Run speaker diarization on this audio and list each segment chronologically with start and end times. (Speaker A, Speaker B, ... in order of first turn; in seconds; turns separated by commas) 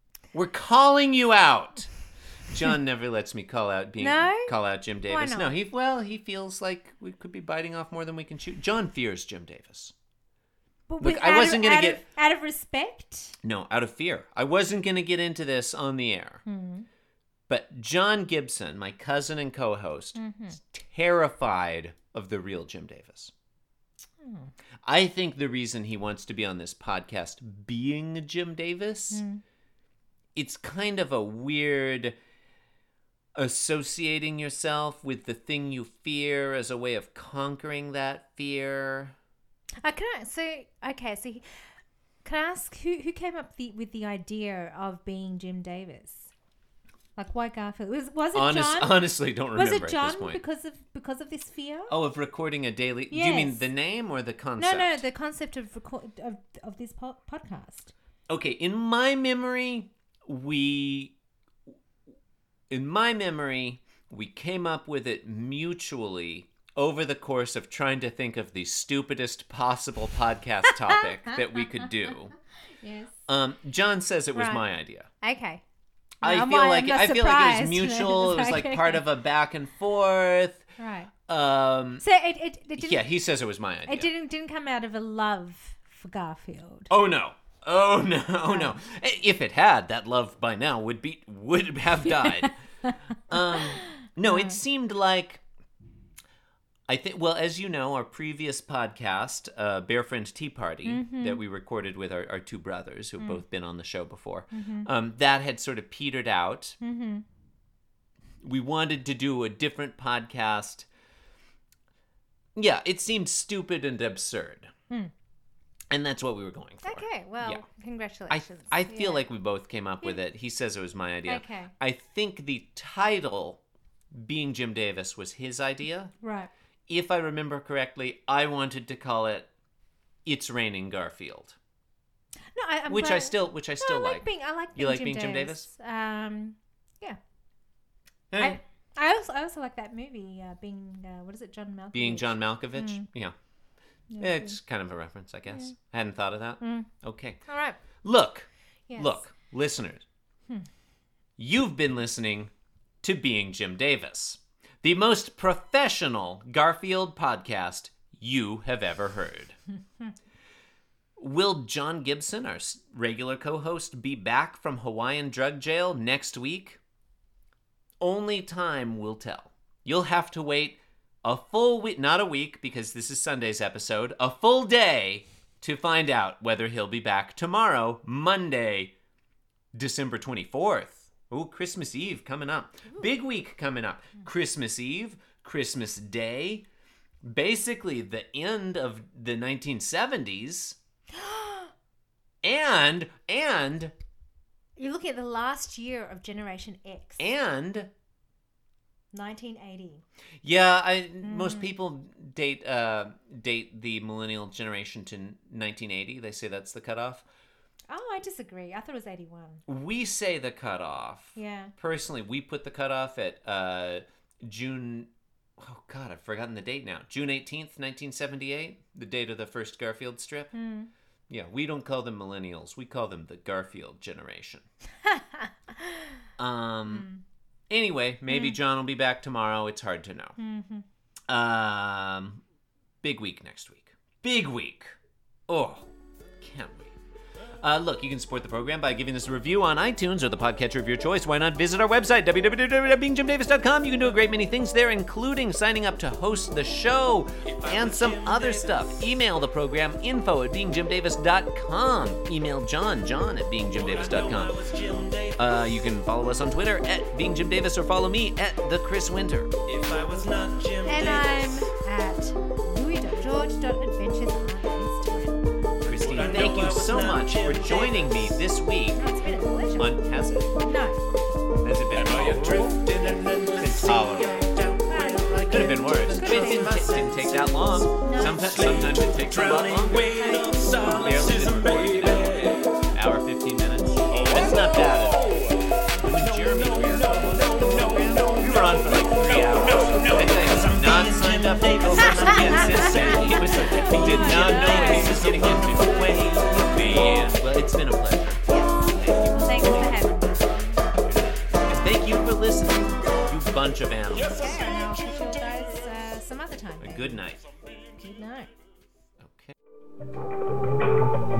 Speaker A: 0.3-1.9, Speaker A: 2.5-9.9, Speaker B: 4.0-5.6, Speaker B: 10.9-13.4, Speaker A: 11.0-12.0, Speaker A: 13.4-16.4, Speaker B: 16.5-16.9, Speaker A: 17.5-23.3, Speaker B: 20.1-20.6, Speaker B: 24.2-24.5, Speaker A: 24.9-29.2, Speaker B: 29.1-29.4, Speaker A: 30.4-32.2, Speaker A: 33.4-39.1, Speaker B: 39.8-41.5, Speaker B: 42.2-46.3, Speaker B: 47.2-51.9, Speaker A: 48.3-50.4, Speaker A: 51.9-55.0, Speaker B: 53.1-53.6, Speaker B: 54.6-57.9, Speaker A: 58.3-61.1, Speaker A: 62.7-72.3, Speaker B: 70.7-71.9, Speaker B: 72.8-73.1, Speaker A: 73.3-75.1, Speaker B: 74.3-74.6, Speaker B: 75.2-75.6, Speaker B: 76.2-79.1, Speaker A: 76.2-80.7, Speaker B: 80.8-81.1, Speaker A: 81.3-82.0, Speaker B: 82.0-83.1, Speaker A: 82.8-84.1, Speaker B: 83.9-86.9, Speaker A: 86.9-92.5, Speaker B: 88.5-88.8, Speaker B: 92.0-94.6, Speaker A: 93.3-95.4, Speaker A: 96.9-106.8, Speaker B: 100.8-101.4, Speaker B: 104.5-104.9, Speaker B: 106.8-107.2, Speaker A: 108.4-110.9, Speaker A: 112.6-114.7, Speaker A: 115.9-117.6, Speaker B: 116.8-119.3, Speaker A: 118.3-123.6, Speaker B: 121.3-121.7, Speaker A: 124.1-126.1, Speaker B: 126.2-126.5, Speaker A: 126.9-129.5, Speaker A: 130.3-131.6, Speaker B: 132.6-137.2, Speaker A: 132.9-135.7, Speaker A: 138.3-138.6, Speaker B: 138.4-143.1, Speaker A: 141.9-143.3, Speaker B: 144.1-144.6, Speaker A: 144.2-147.4, Speaker B: 145.5-145.7, Speaker B: 146.6-146.9, Speaker B: 147.5-147.8, Speaker A: 148.0-150.0, Speaker B: 148.9-149.2, Speaker A: 151.4-159.6, Speaker A: 161.2-166.8, Speaker A: 168.0-178.9, Speaker A: 179.8-186.7, Speaker A: 187.2-190.8, Speaker B: 191.2-191.7, Speaker A: 192.4-193.9, Speaker B: 194.8-197.3, Speaker A: 197.2-197.9, Speaker B: 199.1-200.0, Speaker A: 200.4-207.2, Speaker B: 201.2-201.7, Speaker B: 207.9-209.6, Speaker A: 209.7-220.5, Speaker B: 211.3-211.7, Speaker B: 220.5-220.9, Speaker A: 221.3-224.6, Speaker B: 225.1-225.9, Speaker A: 226.4-227.1, Speaker B: 226.9-227.2, Speaker A: 227.7-230.4, Speaker B: 228.3-228.6, Speaker B: 230.4-230.8, Speaker A: 231.3-232.4, Speaker A: 233.0-235.0, Speaker A: 235.5-235.9, Speaker A: 236.4-236.9, Speaker A: 237.6-254.7, Speaker C: 247.6-248.9, Speaker C: 253.8-255.4, Speaker A: 255.4-259.6, Speaker C: 259.7-261.6, Speaker B: 260.8-265.4, Speaker A: 265.8-269.0, Speaker C: 266.1-268.1, Speaker B: 269.0-270.0, Speaker A: 269.8-270.5, Speaker B: 270.6-271.0, Speaker A: 271.6-272.9, Speaker C: 272.0-282.6, Speaker A: 273.5-274.5, Speaker B: 274.8-277.1, Speaker A: 275.4-285.4, Speaker B: 278.0-278.9, Speaker B: 280.1-281.2, Speaker C: 284.1-284.4, Speaker A: 286.0-300.0, Speaker C: 286.4-297.1, Speaker B: 292.0-297.3, Speaker B: 298.5-300.6, Speaker A: 301.1-304.4, Speaker B: 304.2-307.2, Speaker A: 306.8-307.4, Speaker B: 307.9-308.5, Speaker A: 309.2-309.5